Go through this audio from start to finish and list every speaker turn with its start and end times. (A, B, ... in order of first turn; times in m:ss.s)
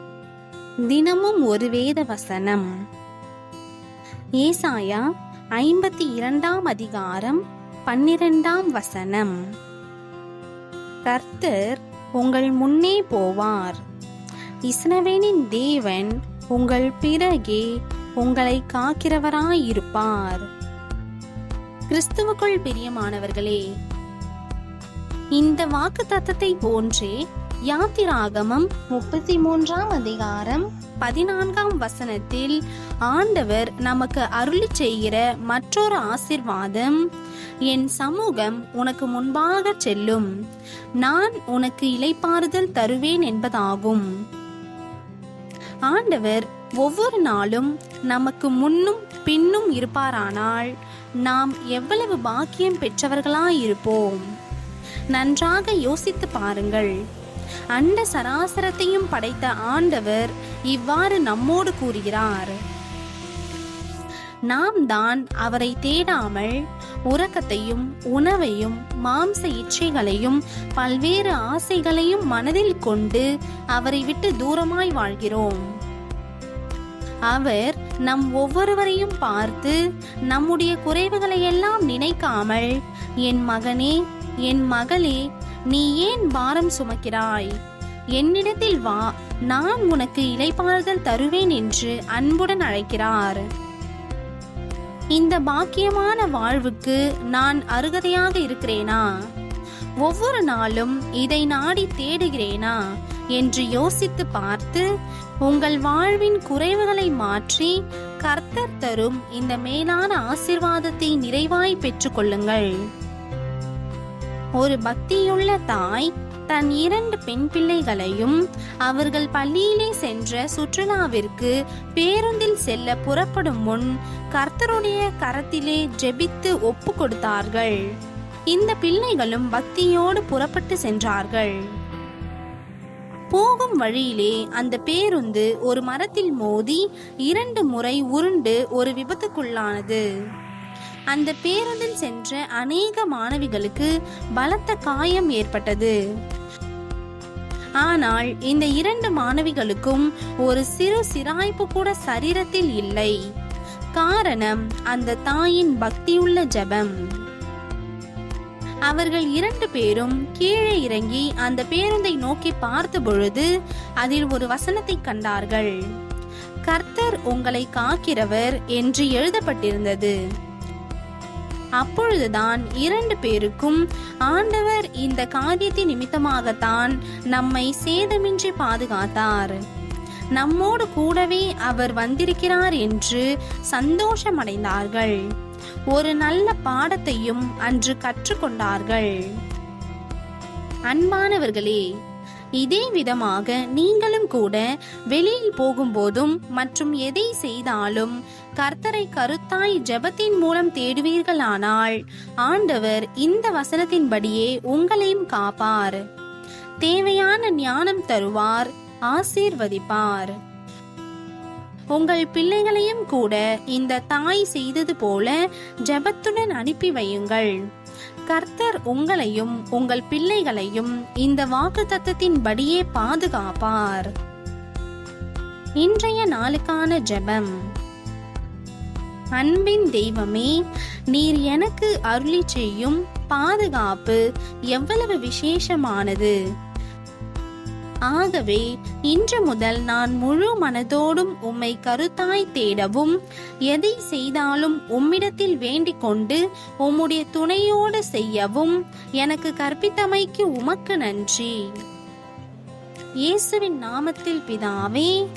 0:00.9-0:02.7 A
0:04.4-0:05.0 A
0:05.6-0:09.4 A
0:11.1-0:13.8 A
0:14.7-0:17.7 A
0:18.2-0:20.5 A
0:21.9-0:23.6 A
0:25.4-0:27.2 A
0:27.7-0:37.0 A
0:37.7-0:40.3 A
0:41.0-0:44.1 A
0:45.9-0:50.7 A
0:51.2-0:54.2 A
0:55.1-0:56.9 A
0:57.8-1:02.6 A
1:04.5-1:06.6 A
1:07.1-1:15.6 A
1:17.3-1:19.8 A
1:20.3-1:22.7 A
1:23.2-1:27.6 A
1:28.2-1:33.4 A
1:35.2-1:39.0 A
1:40.0-1:42.8 A
1:43.4-1:44.8 A
1:45.4-1:52.7 A
1:54.6-2:07.8 A
2:08.5-2:11.6 A
2:13.3-2:20.0 A
2:21.1-2:26.0 A
2:27.8-2:33.2 A
2:34.0-2:37.0 A
2:38.9-2:43.5 A
2:44.0-2:45.7 A
2:46.7-2:50.2 A
2:51.8-2:59.6 A
3:00.4-3:05.2 A
3:05.9-3:09.1 A
3:10.9-3:11.8 A
3:12.6-3:26.0 A
3:26.8-3:30.4 A
3:32.0-3:35.4 A
3:35.9-3:37.6 A
3:38.3-3:44.1 A
3:45.8-3:47.5 A
3:49.4-3:50.5 A
3:51.1-3:54.2 A
3:54.7-3:56.4 A
3:58.1-4:03.2 A
4:03.7-4:11.5 A
4:13.3-4:15.1 A